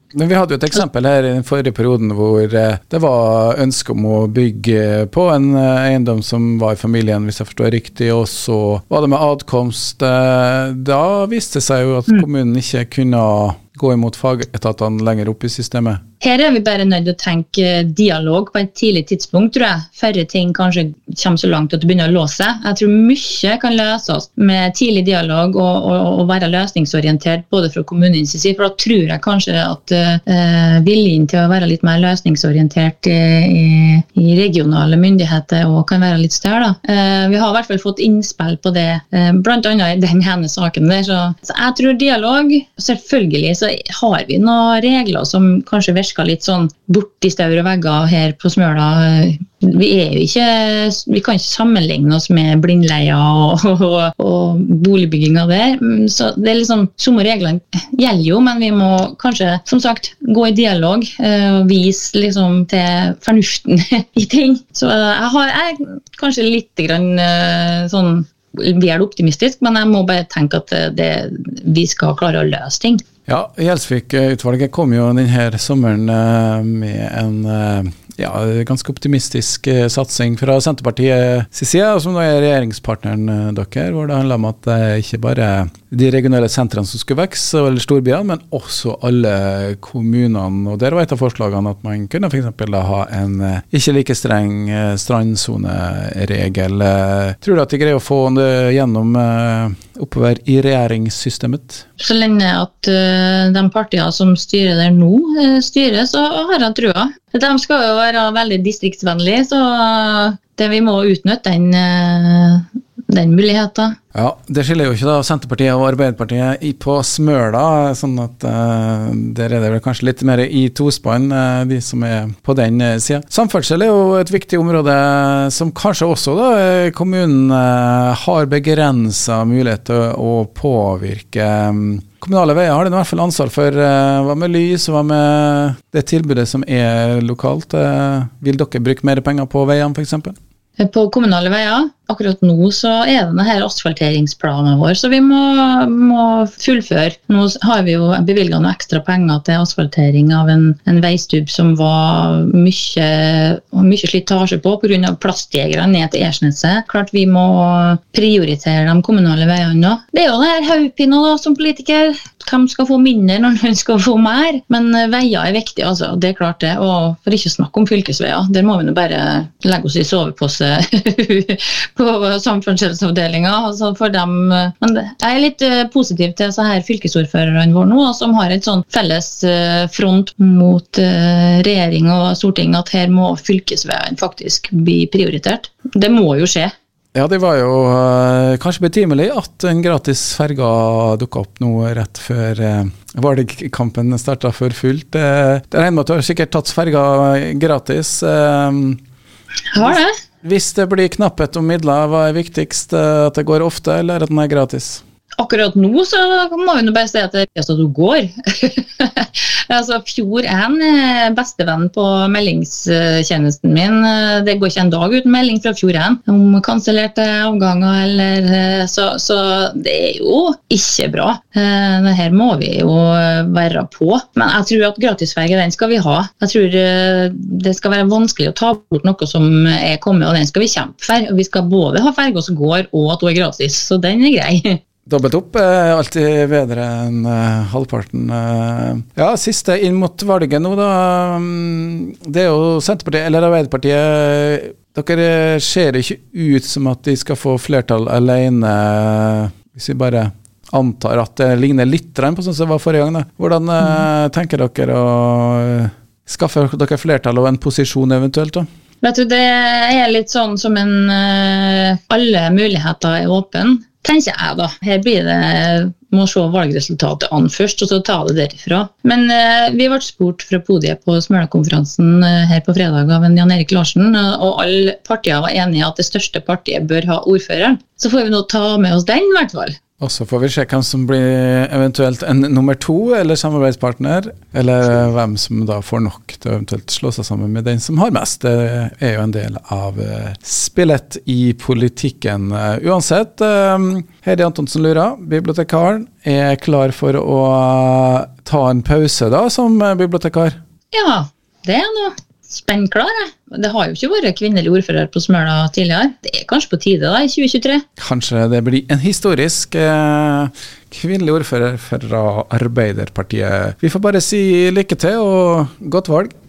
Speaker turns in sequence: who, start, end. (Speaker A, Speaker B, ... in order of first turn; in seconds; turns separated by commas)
Speaker A: 0.1-16.0, Speaker B: 16.2-73.0, Speaker A: 73.3-101.9, Speaker B: 102.0-114.0, Speaker A: 114.2-140.3, Speaker B: 140.8-186.7, Speaker A: 187.2-199.0, Speaker B: 199.7-200.1, Speaker A: 199.8-205.0, Speaker B: 205.4-234.8, Speaker A: 235.1-258.7, Speaker B: 259.0-279.8, Speaker A: 280.0-300.6, Speaker B: 300.9-307.8, Speaker A: 308.0-316.3